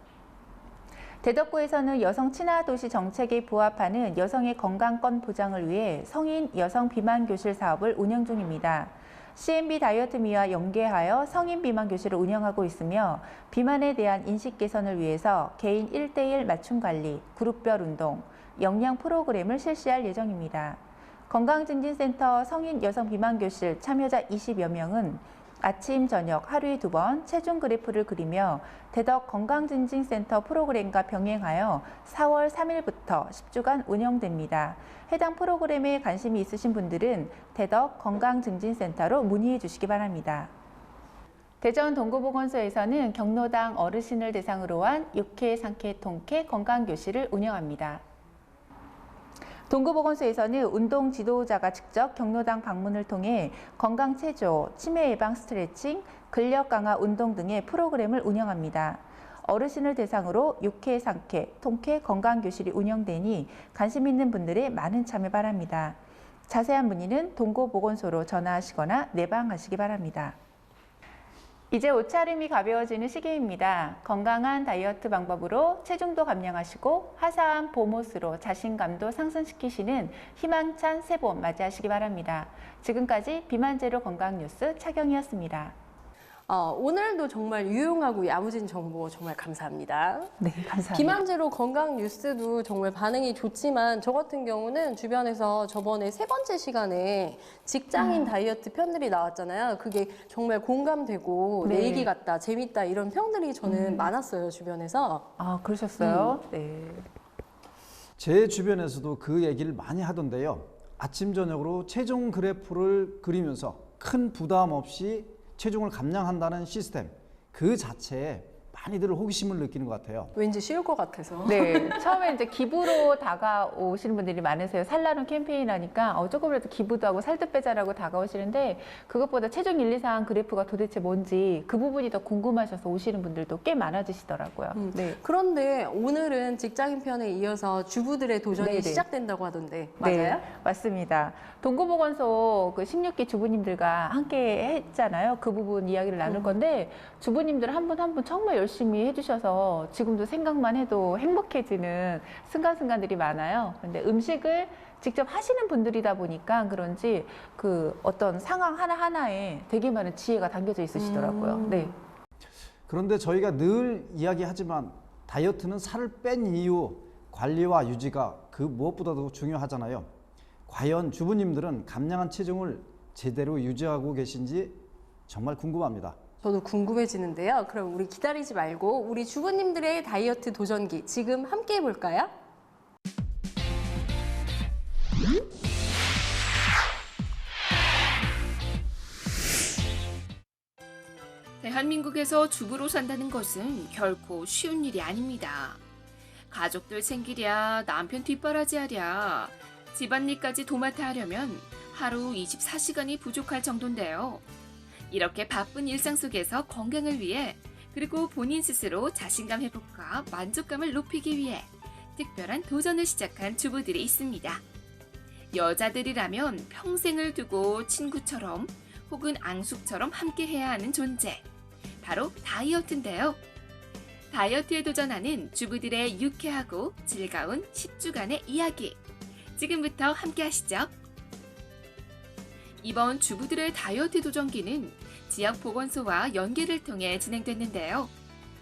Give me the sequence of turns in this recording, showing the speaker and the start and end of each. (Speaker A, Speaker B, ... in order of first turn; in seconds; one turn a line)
Speaker A: 1.2-40.5
Speaker A: 41.6-48.0
Speaker A: 49.7-70.4
Speaker A: 71.7-85.8
Speaker B: 86.5-105.3
Speaker A: 90.4-91.2
Speaker A: 97.9-98.3
Speaker A: 101.6-102.1
Speaker A: 103.6-104.1
Speaker A: 105.4-107.1
Speaker B: 106.0-106.3
Speaker C: 108.2-120.3
Speaker B: 120.3-122.3
Speaker A: 121.4-135.2
Speaker B: 134.7-140.5
Speaker A: 138.6-139.1
Speaker A: 140.0-161.9
Speaker B: 146.2-146.6
Speaker B: 160.9-161.9
Speaker C: 162.9-170.1
Speaker C: 170.7-176.2
Speaker B: 176.4-182.3
Speaker D: 191.6-195.8
Speaker D: 196.5-204.4
Speaker D: 205.1-214.6
Speaker D: 215.5-221.4
Speaker D: 222.0-223.4
Speaker D: 224.3-229.0
Speaker D: 229.6-230.9
Speaker D: 232.8-238.1